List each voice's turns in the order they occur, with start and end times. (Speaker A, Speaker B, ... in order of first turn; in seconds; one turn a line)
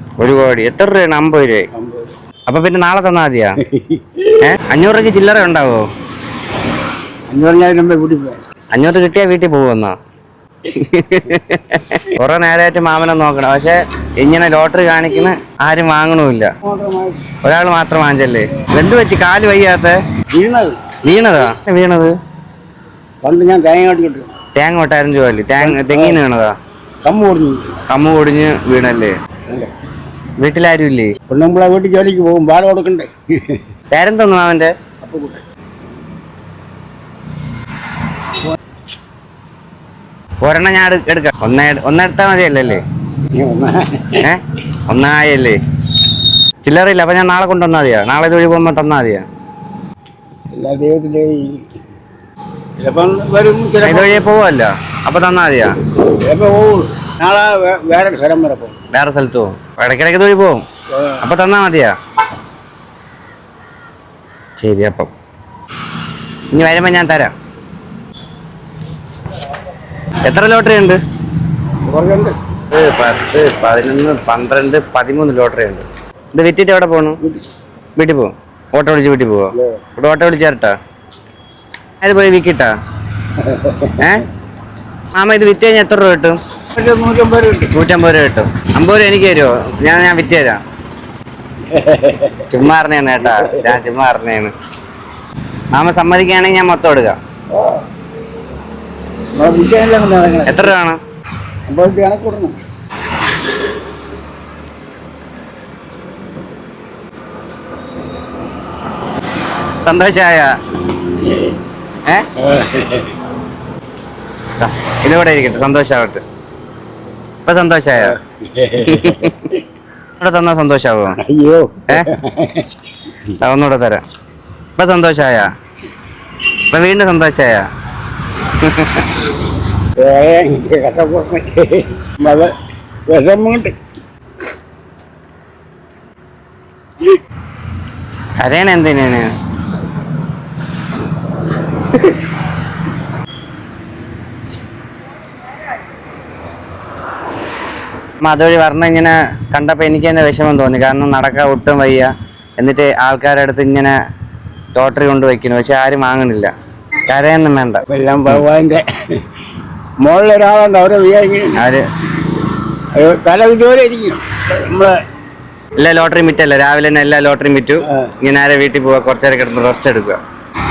Speaker A: 0.2-1.7
Speaker B: 1.8-2.1
Speaker A: 2.5-3.6
Speaker B: 3.6-4.4
Speaker A: 4.4-5.8
Speaker B: 7.3-8.4
Speaker A: 8.7-10.0
Speaker A: 10.7-16.5
Speaker B: 16.6-17.2
Speaker A: 17.4-20.0
Speaker B: 20.3-20.8
Speaker A: 21.0-22.2
Speaker B: 23.2-24.3
Speaker A: 24.6-26.6
Speaker B: 25.6-26.2
Speaker B: 27.0-27.7
Speaker A: 27.9-29.1
Speaker A: 30.4-31.1
Speaker B: 31.3-33.6
Speaker A: 33.9-34.7
Speaker B: 35.0-35.4
Speaker A: 40.4-42.8
Speaker B: 43.3-44.3
Speaker A: 44.2-45.6
Speaker A: 46.6-49.2
Speaker B: 50.6-51.6
Speaker B: 52.8-54.3
Speaker A: 53.8-55.7
Speaker B: 56.1-58.8
Speaker A: 58.9-60.6
Speaker B: 60.9-61.2
Speaker A: 61.2-61.9
Speaker A: 64.6-65.1
Speaker A: 66.5-67.3
Speaker A: 70.2-71.0
Speaker B: 71.9-72.4
Speaker A: 72.7-77.2
Speaker A: 78.0-80.8
Speaker B: 79.5-79.8
Speaker A: 82.0-82.7
Speaker B: 83.3-84.1
Speaker A: 84.0-84.3
Speaker A: 85.1-86.4
Speaker B: 86.8-87.7
Speaker A: 87.7-90.6
Speaker B: 91.7-92.5
Speaker A: 92.5-94.5
Speaker B: 93.2-93.8
Speaker A: 95.7-97.2
Speaker B: 97.5-97.8
Speaker B: 99.4-100.8
Speaker A: 100.5-101.0
Speaker B: 101.7-102.6
Speaker A: 109.8-110.5
Speaker B: 112.4-113.1
Speaker A: 114.6-116.2
Speaker A: 117.5-118.2
Speaker B: 118.0-119.6
Speaker A: 118.8-119.3
Speaker A: 120.2-121.2
Speaker B: 121.2-122.7
Speaker A: 123.4-124.0
Speaker A: 124.8-125.5
Speaker A: 126.7-127.7
Speaker A: 128.4-129.1
Speaker B: 130.0-132.5
Speaker B: 133.1-133.8
Speaker A: 138.4-139.3
Speaker A: 148.2-153.9
Speaker A: 154.8-156.5
Speaker A: 157.1-157.8
Speaker B: 157.9-159.2
Speaker B: 160.0-161.6
Speaker A: 161.6-161.8
Speaker B: 162.9-165.0
Speaker A: 165.8-170.2